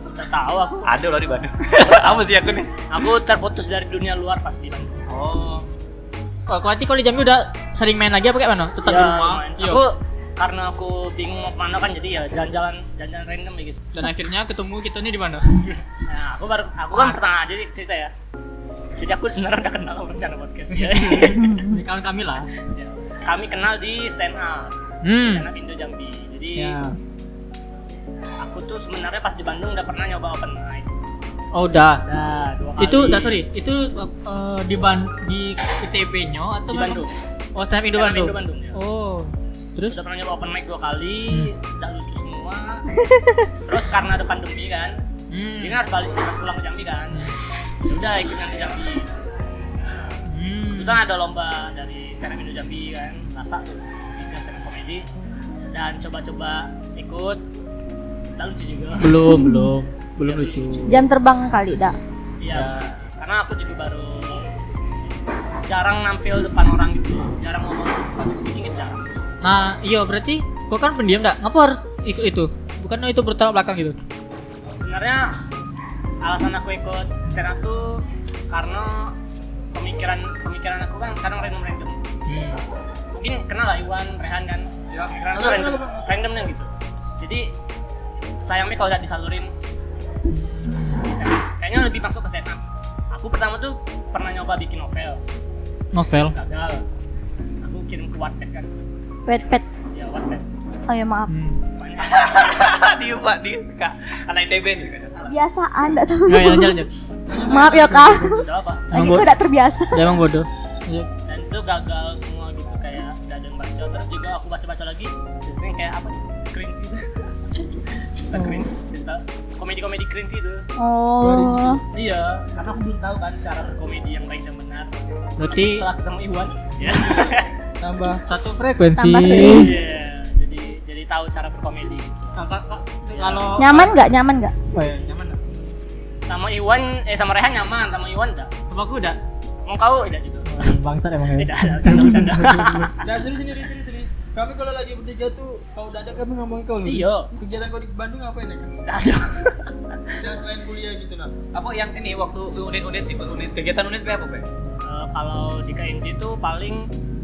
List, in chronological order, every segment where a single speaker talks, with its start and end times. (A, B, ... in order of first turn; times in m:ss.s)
0:00.1-0:00.9 A
0:00.8-0:02.9 B
0:02.9-0:05.0 A
0:05.1-0:05.7 B
0:06.5-0:09.8 C
0:08.8-0:13.8 A
0:13.9-0:15.8 C
0:16.1-0:18.1 A
0:19.0-0:21.6 A
0:21.0-0:22.5 C
0:22.7-0:26.8 A
0:25.0-0:25.5 C
0:26.6-0:27.0 C
0:28.4-0:30.9 A
0:31.5-0:32.0 C
0:32.0-0:33.4 A
0:32.8-0:40.0 C
0:36.7-0:37.1 A
0:37.9-0:38.8 A
0:39.9-0:42.9 A
0:43.7-0:45.0 A
0:45.3-0:45.8 C
0:45.6-0:47.2 A
0:47.9-0:49.1 A
0:50.3-0:51.0 C
0:50.7-0:55.1 A
0:55.7-0:57.4 A
0:58.4-0:59.3 A
0:59.0-1:01.0 C
0:59.4-0:59.7 D
1:00.2-1:01.0 A
1:00.9-1:02.0 D
1:02.4-1:04.4 A
1:02.5-1:02.8 C
1:05.6-1:09.1 A
1:09.4-1:14.0 C
1:14.7-1:15.4 A
1:16.2-1:19.2 A
1:19.7-1:22.0 A
1:22.3-1:22.6 C
1:23.1-1:27.5 A
1:25.3-1:26.1 E
1:28.4-1:29.5 A
1:30.3-1:31.0 C
1:31.0-1:35.2 A
1:35.9-1:36.3 C
1:36.3-1:36.8 A
1:37.6-1:38.7 A
1:39.3-1:39.6 D
1:39.7-1:40.5 A
1:40.9-1:41.3 D
1:41.3-1:41.6 C
1:41.8-1:42.3 A
1:42.1-1:45.4 B
1:45.3-1:46.8 D
1:46.3-1:46.9 C
1:47.3-1:48.4 E
1:47.4-1:50.2 D
1:48.3-1:48.9 A
1:48.9-1:49.3 C
1:49.9-1:51.1 C
1:51.3-1:57.3 A
1:58.2-2:00.7 A
1:58.4-1:58.6 C
2:00.8-2:01.8 D
2:01.2-2:01.8 C
2:01.9-2:07.5 A
2:05.4-2:05.8 C
2:07.8-2:08.2 E
2:08.3-2:09.8 C
2:09.0-2:09.8 D
2:09.4-2:12.4 A
2:12.4-2:14.0 C
2:13.1-2:13.6 A
2:13.6-2:14.5 D
2:14.7-2:15.4 C
2:16.2-2:18.5 A
2:18.7-2:19.2 C
2:19.6-2:20.7 A
2:20.5-2:22.8 C
2:21.4-2:23.0 A
2:23.0-2:28.8 E
2:26.8-2:27.3 A
2:28.9-2:30.0 A
2:30.2-2:31.4 E
2:31.5-2:34.4 B
2:34.8-2:36.9 A